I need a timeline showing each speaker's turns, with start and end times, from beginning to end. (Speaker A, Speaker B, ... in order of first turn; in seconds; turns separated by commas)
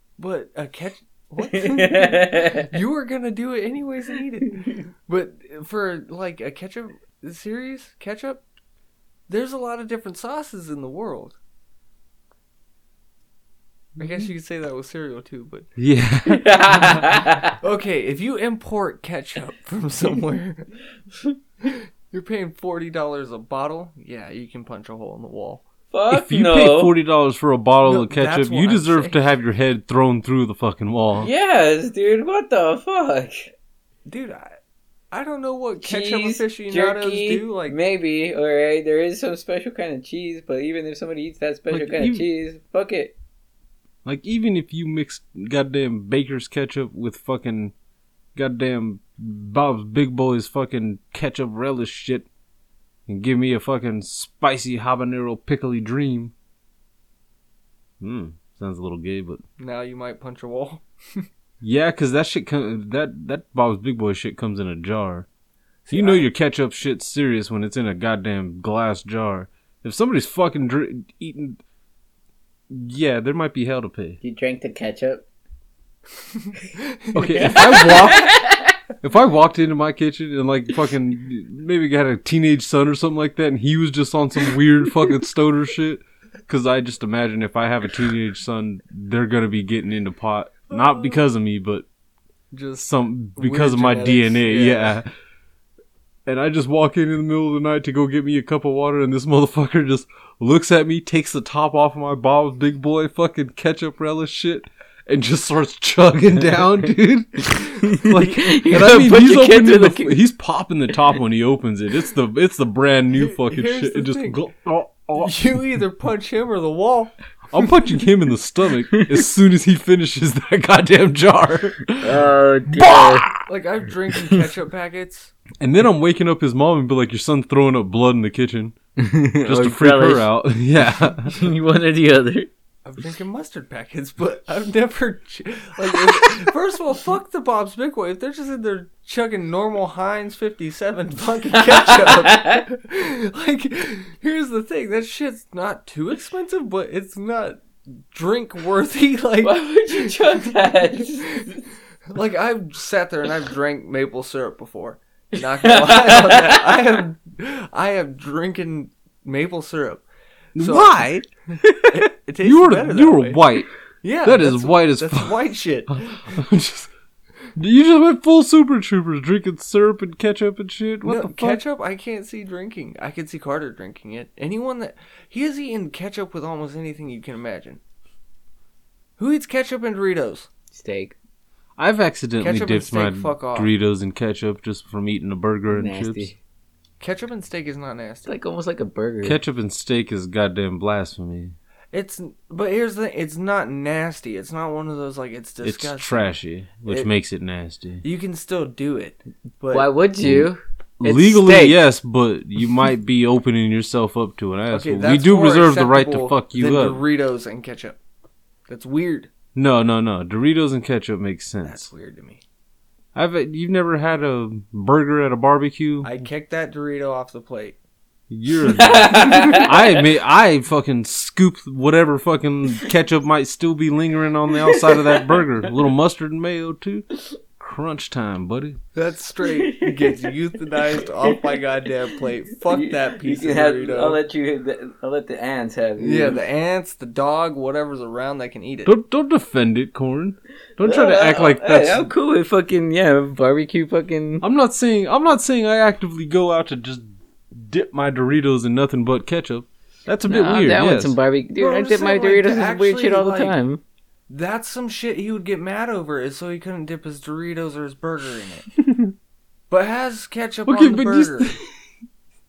Speaker A: 0.2-8.4, Speaker B: 1.4-2.7, Speaker A: 9.3-11.4, Speaker A: 14.0-15.7, Speaker C: 15.8-16.5, Speaker B: 16.3-17.6, Speaker A: 17.6-20.7, Speaker A: 21.6-25.6, Speaker B: 25.9-26.9, Speaker C: 26.1-31.3, Speaker A: 27.8-29.2, Speaker B: 31.2-33.5, Speaker A: 34.1-34.6, Speaker A: 35.1-37.8, Speaker B: 35.8-43.1, Speaker C: 41.7-42.2, Speaker C: 44.0-47.7, Speaker C: 48.4-52.3, Speaker C: 53.1-56.3, Speaker C: 58.0-59.4, Speaker A: 59.6-61.3, Speaker C: 61.6-65.3, Speaker A: 65.9-66.3, Speaker C: 65.9-71.6, Speaker C: 72.7-74.2, Speaker B: 74.2-75.2, Speaker A: 76.3-78.1, Speaker C: 77.1-78.5, Speaker B: 77.3-78.7, Speaker C: 79.0-91.9, Speaker A: 92.5-95.0, Speaker C: 92.8-95.1, Speaker C: 96.3-115.5, Speaker B: 107.9-110.2, Speaker A: 113.2-114.4, Speaker A: 115.2-117.1, Speaker C: 117.5-122.2, Speaker B: 121.9-123.3, Speaker C: 122.8-123.5, Speaker A: 123.5-125.3, Speaker C: 125.6-128.8, Speaker B: 129.0-130.3, Speaker C: 129.4-131.3, Speaker B: 131.3-132.5, Speaker A: 132.8-160.0, Speaker B: 141.7-142.6, Speaker B: 149.4-151.6, Speaker B: 155.4-156.7, Speaker C: 160.6-163.7, Speaker A: 160.6-161.0, Speaker A: 161.9-163.4, Speaker A: 164.0-166.3, Speaker C: 164.2-166.9, Speaker C: 167.6-171.6, Speaker A: 171.1-177.8, Speaker A: 179.2-180.5, Speaker B: 180.7-181.2, Speaker C: 181.8-186.3, Speaker A: 182.4-183.7, Speaker B: 185.7-186.4, Speaker A: 187.0-188.3, Speaker B: 188.3-189.4, Speaker C: 189.2-191.6, Speaker A: 191.9-196.3, Speaker C: 195.6-198.0, Speaker A: 198.0-199.9, Speaker B: 199.7-201.8, Speaker C: 200.2-207.0, Speaker A: 204.7-208.0, Speaker A: 208.7-209.3, Speaker C: 209.6-211.9, Speaker A: 211.7-212.4, Speaker C: 213.2-216.2, Speaker A: 216.0-217.8, Speaker C: 218.3-228.8, Speaker B: 218.7-219.7, Speaker B: 224.6-225.4, Speaker A: 228.9-234.2, Speaker B: 229.4-231.6, Speaker B: 232.7-236.4, Speaker A: 236.0-238.9, Speaker C: 238.9-242.1, Speaker B: 240.8-244.4, Speaker C: 244.4-251.2, Speaker B: 250.3-253.8, Speaker A: 251.6-253.6, Speaker A: 254.3-258.7, Speaker C: 258.8-259.1, Speaker A: 259.7-261.5, Speaker C: 260.7-261.8